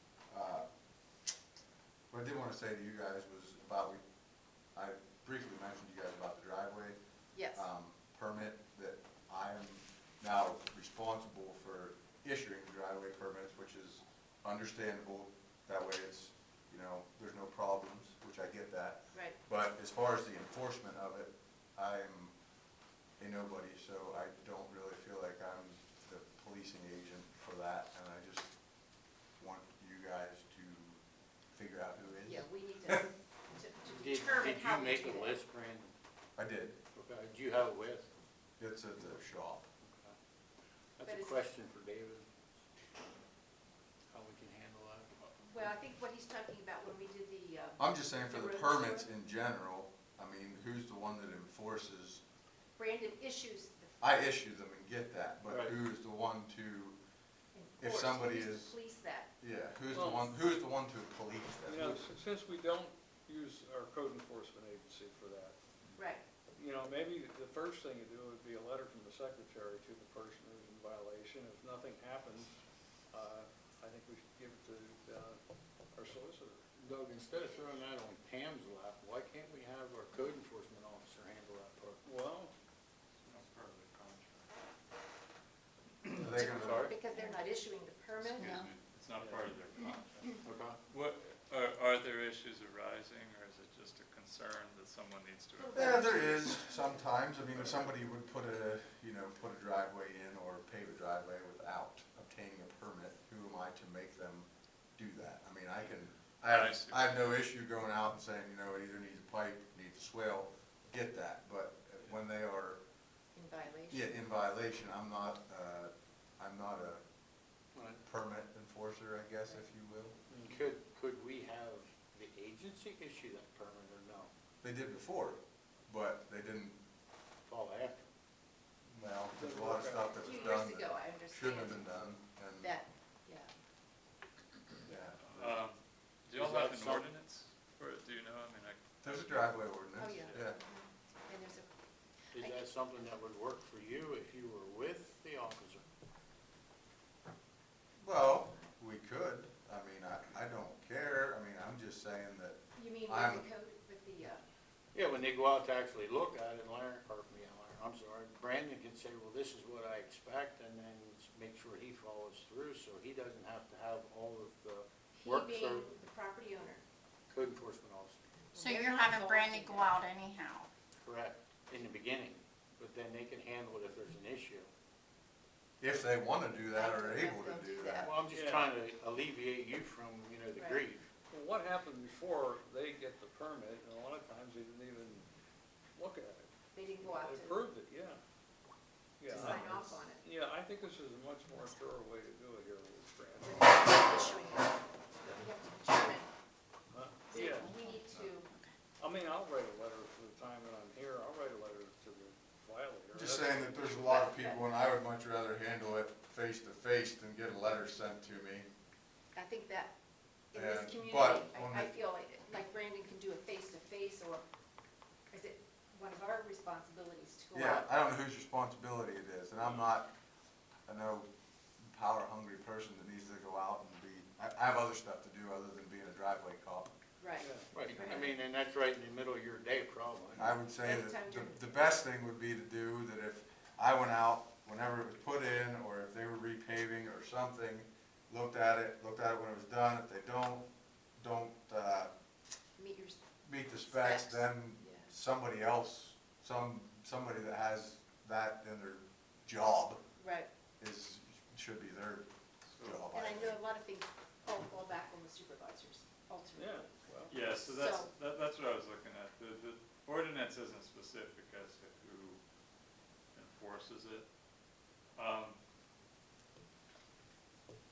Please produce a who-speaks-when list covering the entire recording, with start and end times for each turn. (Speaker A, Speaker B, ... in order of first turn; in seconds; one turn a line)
Speaker A: 0.3-0.7
Speaker A: 2.1-4.0
Speaker A: 4.8-7.0
Speaker B: 7.3-7.7
Speaker A: 7.5-22.3
Speaker A: 23.2-28.5
Speaker A: 29.4-31.0
Speaker A: 31.5-33.0
Speaker B: 32.3-35.4
Speaker C: 33.9-35.9
Speaker A: 36.4-36.8
Speaker C: 37.0-38.1
Speaker A: 38.6-39.7
Speaker C: 39.8-40.1
Speaker C: 41.0-42.3
Speaker B: 41.1-41.4
Speaker C: 44.1-45.1
Speaker B: 45.4-49.1
Speaker A: 47.8-52.2
Speaker B: 52.8-54.0
Speaker A: 54.0-57.0
Speaker C: 55.5-55.8
Speaker B: 57.5-59.3
Speaker A: 57.8-58.7
Speaker A: 59.4-62.0
Speaker D: 60.0-60.3
Speaker D: 61.7-65.5
Speaker B: 66.0-66.2
Speaker D: 66.6-72.5
Speaker D: 73.1-75.4
Speaker D: 76.0-76.6
Speaker C: 76.8-82.0
Speaker D: 82.1-82.5
Speaker E: 83.2-84.6
Speaker E: 86.0-86.5
Speaker A: 86.2-86.9
Speaker B: 86.3-88.6
Speaker C: 86.4-87.0
Speaker E: 88.2-96.3
Speaker F: 88.4-88.7
Speaker C: 90.4-90.8
Speaker B: 95.6-97.1
Speaker A: 95.7-112.8
Speaker E: 106.4-107.3
Speaker B: 113.3-114.0
Speaker A: 113.9-117.0
Speaker C: 117.8-118.0
Speaker A: 118.0-120.2
Speaker D: 120.3-120.6
Speaker C: 120.4-124.3
Speaker A: 124.6-126.8
Speaker C: 127.5-128.0
Speaker A: 128.9-132.7
Speaker D: 129.4-130.2
Speaker B: 130.2-133.5
Speaker A: 134.8-135.6
Speaker E: 135.3-140.4
Speaker C: 136.3-137.1
Speaker A: 139.0-140.6
Speaker B: 140.0-141.7
Speaker C: 142.3-145.8
Speaker A: 148.0-153.4
Speaker B: 152.8-154.4
Speaker C: 154.9-165.9
Speaker B: 165.2-166.8
Speaker C: 167.3-168.2
Speaker B: 168.5-170.0
Speaker F: 168.6-170.7
Speaker C: 171.0-174.7
Speaker A: 175.8-178.1
Speaker B: 176.7-178.2
Speaker C: 178.0-181.1
Speaker D: 178.3-178.7
Speaker D: 181.3-185.3
Speaker D: 186.0-186.5
Speaker B: 186.7-187.6
Speaker D: 187.0-188.2
Speaker D: 189.2-193.6
Speaker B: 189.3-190.2
Speaker B: 193.4-196.3
Speaker D: 196.9-197.8
Speaker B: 197.3-198.5
Speaker F: 197.6-197.9
Speaker D: 199.0-203.7
Speaker A: 203.1-208.7
Speaker B: 203.7-204.6
Speaker B: 209.3-209.9
Speaker B: 210.5-214.4
Speaker A: 210.6-212.0
Speaker B: 215.3-217.9
Speaker A: 217.5-220.1
Speaker A: 220.9-221.3
Speaker A: 221.8-226.9
Speaker B: 227.2-228.3
Speaker D: 227.4-227.7
Speaker C: 227.7-230.5
Speaker A: 230.4-240.7
Speaker B: 230.8-231.7
Speaker A: 241.2-242.1
Speaker B: 242.8-243.2
Speaker A: 243.4-250.0
Speaker B: 243.9-245.1
Speaker B: 250.2-250.5
Speaker A: 250.8-252.3
Speaker E: 252.7-253.1
Speaker A: 252.8-253.6
Speaker B: 253.1-258.1
Speaker D: 256.6-257.4
Speaker E: 257.3-262.4
Speaker E: 263.3-264.3
Speaker E: 265.2-265.6